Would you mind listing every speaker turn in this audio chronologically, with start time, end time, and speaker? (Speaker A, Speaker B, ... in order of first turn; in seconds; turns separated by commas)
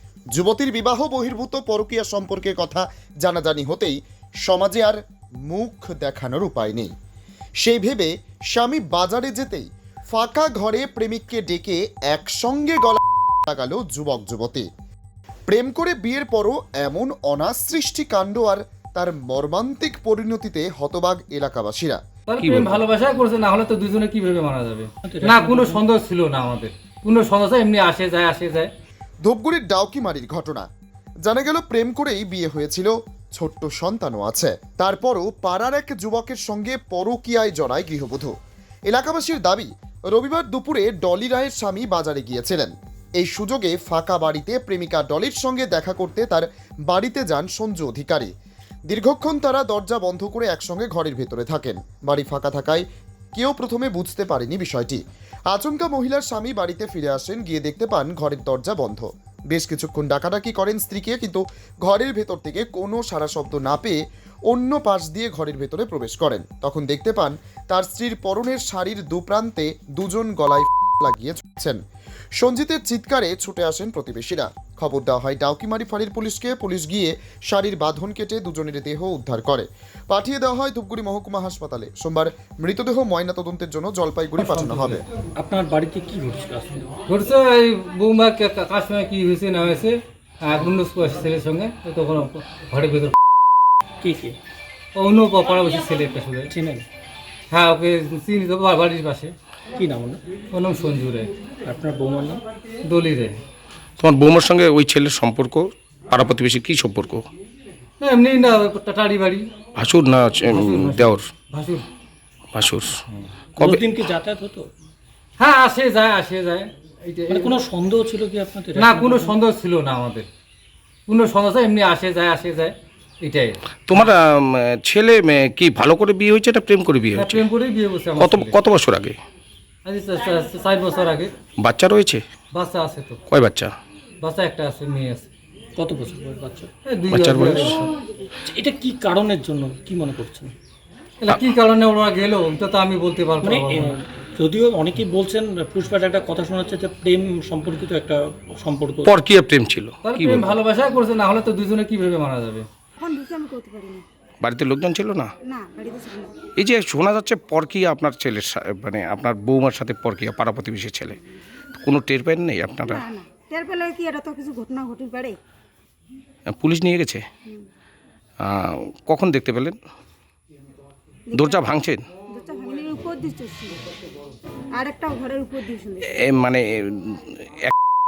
Speaker A: 0.3-6.9, Speaker A: 7.6-14.7, Speaker A: 15.5-22.0, Speaker B: 22.3-28.7, Speaker C: 22.4-22.8, Speaker D: 25.0-25.8, Speaker A: 29.2-30.7, Speaker A: 31.2-38.3, Speaker A: 38.9-48.3, Speaker A: 48.9-71.8, Speaker A: 72.4-85.0, Speaker B: 84.5-85.0, Speaker D: 85.4-86.9, Speaker B: 87.1-93.2, Speaker D: 94.0-94.4, Speaker B: 95.0-96.5, Speaker D: 96.5-96.9, Speaker B: 97.5-99.3, Speaker D: 99.8-100.2, Speaker B: 100.5-101.3, Speaker D: 101.7-102.4, Speaker B: 102.8-103.4, Speaker C: 104.0-107.3, Speaker B: 108.0-109.5, Speaker C: 109.8-111.3, Speaker B: 110.5-111.8, Speaker C: 112.5-113.0, Speaker C: 113.6-113.8, Speaker D: 113.6-114.7, Speaker B: 115.4-117.6, Speaker D: 117.3-119.4, Speaker B: 118.8-120.3, Speaker B: 121.1-124.1, Speaker C: 123.9-127.5, Speaker B: 127.2-128.6, Speaker C: 128.2-129.2, Speaker B: 129.8-131.3, Speaker C: 131.6-132.2, Speaker B: 132.5-133.2, Speaker C: 133.3-133.7, Speaker B: 134.2-135.3, Speaker D: 135.8-136.7, Speaker B: 136.8-137.9, Speaker C: 137.1-137.9, Speaker D: 138.5-140.5, Speaker B: 141.2-144.0, Speaker D: 143.4-149.1, Speaker C: 149.1-150.6, Speaker B: 150.0-152.7, Speaker E: 153.0-154.0, Speaker C: 154.4-155.3, Speaker E: 155.4-156.3, Speaker C: 156.6-161.2, Speaker C: 161.8-163.0, Speaker E: 162.9-165.4, Speaker C: 166.6-167.2, Speaker C: 168.4-169.8, Speaker E: 171.3-171.6, Speaker C: 171.3-172.0, Speaker E: 172.3-173.8, Speaker E: 174.7-176.1, Speaker C: 176.1-177.7